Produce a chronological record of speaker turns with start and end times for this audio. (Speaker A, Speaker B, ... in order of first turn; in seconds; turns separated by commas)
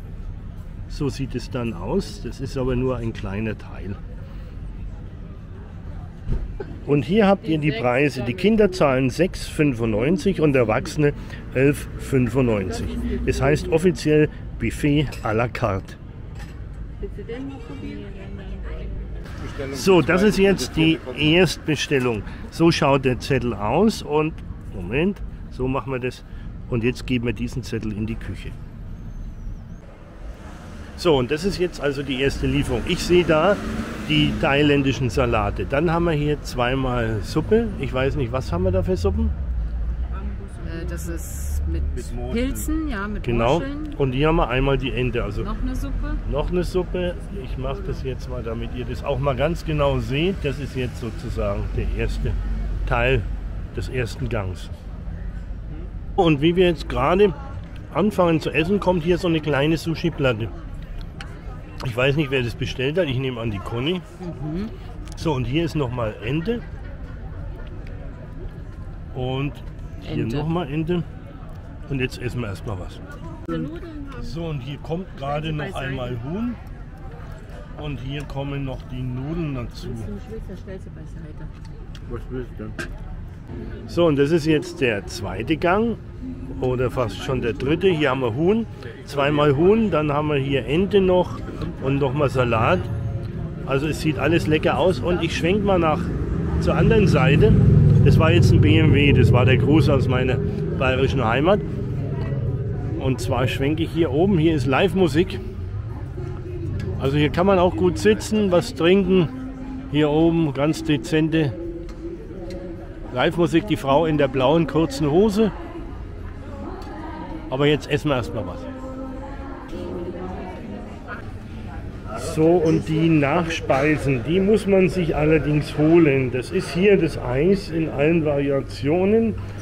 Speaker A: 0.9-4.0, Speaker A: 6.8-16.0, Speaker B: 17.0-18.9, Speaker A: 19.6-28.6, Speaker A: 31.0-39.3, Speaker B: 40.5-44.0, Speaker A: 43.2-45.5, Speaker B: 45.4-46.2, Speaker A: 46.2-54.7, Speaker A: 56.2-57.4, Speaker A: 57.9-60.5, Speaker A: 61.8-64.0, Speaker B: 64.2-64.7, Speaker A: 65.2-66.6, Speaker A: 69.1-71.0, Speaker B: 70.1-70.4, Speaker A: 71.9-73.0, Speaker B: 73.5-74.0, Speaker A: 74.1-76.6, Speaker A: 77.8-80.1, Speaker B: 79.9-81.5, Speaker A: 82.2-82.7, Speaker A: 83.9-86.0, Speaker A: 86.5-92.9, Speaker A: 93.6-101.6, Speaker A: 103.0-105.4, Speaker A: 107.0-109.3, Speaker A: 109.9-111.5, Speaker A: 113.1-115.5, Speaker A: 117.5-118.7, Speaker A: 122.1-129.4